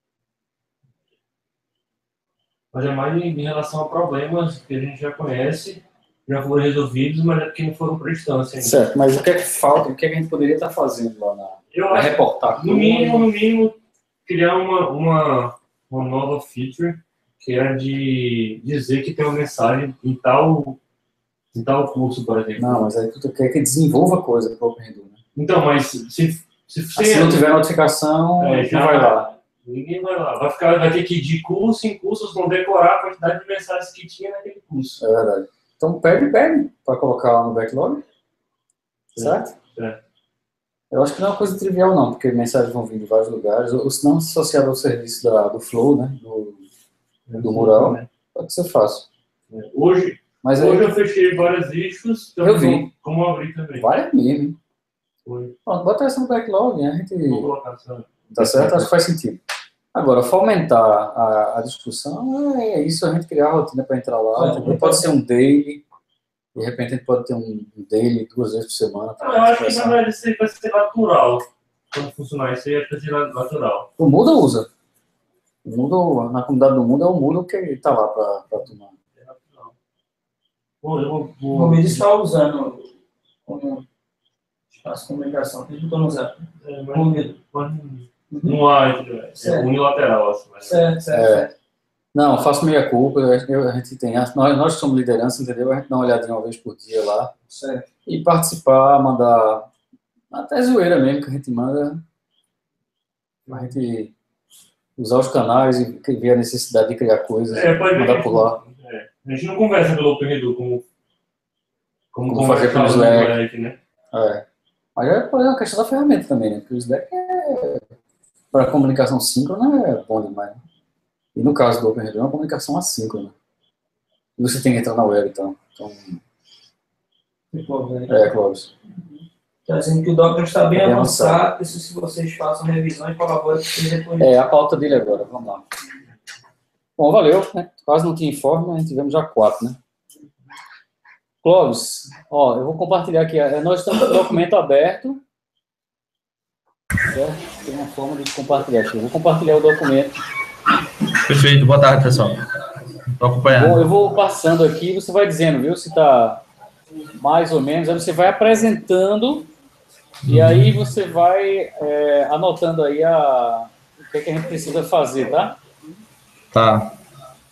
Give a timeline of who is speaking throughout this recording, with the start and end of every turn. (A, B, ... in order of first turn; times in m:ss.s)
0:02.7-0:08.8 A
0:08.6-0:13.3 B
0:11.7-0:20.8 A
0:21.5-0:22.9 A
0:22.6-0:25.2 B
0:25.4-0:27.5 A
0:27.0-0:29.3 B
0:28.4-0:35.0 A
0:35.0-0:38.0 B
0:39.1-0:40.0 A
0:39.2-0:39.5 B
0:40.9-0:46.6 B
0:47.3-0:48.1 A
0:47.4-0:49.1 B
0:49.5-0:54.0 A
0:50.4-0:50.9 B
0:52.4-0:52.9 B
0:53.7-0:54.6 B
0:55.2-0:55.6 A
0:55.7-0:57.5 B
0:57.2-0:58.9 A
0:58.4-0:59.4 B
0:59.9-1:05.8 B
1:04.4-1:05.0 C
1:06.6-1:10.0 B
1:09.2-1:13.9 A
1:14.0-1:14.7 B
1:15.6-1:18.9 B
1:19.2-1:19.7 A
1:20.8-1:22.0 A
1:21.5-1:22.9 C
1:23.5-1:23.8 C
1:24.8-1:27.3 C
1:26.6-1:30.8 A
1:28.3-1:28.6 C
1:29.4-1:29.7 C
1:30.7-1:31.5 C
1:31.1-1:31.5 B
1:32.1-1:37.3 B
1:37.5-1:37.8 C
1:38.1-1:39.7 B
1:40.3-1:42.0 B
1:43.5-1:44.1 B
1:45.0-1:48.6 B
1:47.5-1:50.8 A
1:52.1-1:53.8 A
1:52.3-1:53.4 B
1:54.1-1:54.4 B
1:55.0-1:57.8 B
1:58.5-2:00.6 B
2:01.3-2:03.3 B
2:04.4-2:06.2 B
2:07.5-2:08.2 C
2:08.1-2:08.7 B
2:09.7-2:14.3 C
2:10.8-2:11.4 B
2:14.2-2:15.6 B
2:17.0-2:19.8 B
2:21.4-2:25.2 B
2:27.0-2:30.2 B
2:31.3-2:32.4 D
2:33.2-2:33.9 D
2:33.5-2:36.4 B
2:37.2-2:39.5 B
2:40.2-2:40.7 D
2:40.3-2:45.6 B
2:46.5-2:46.9 D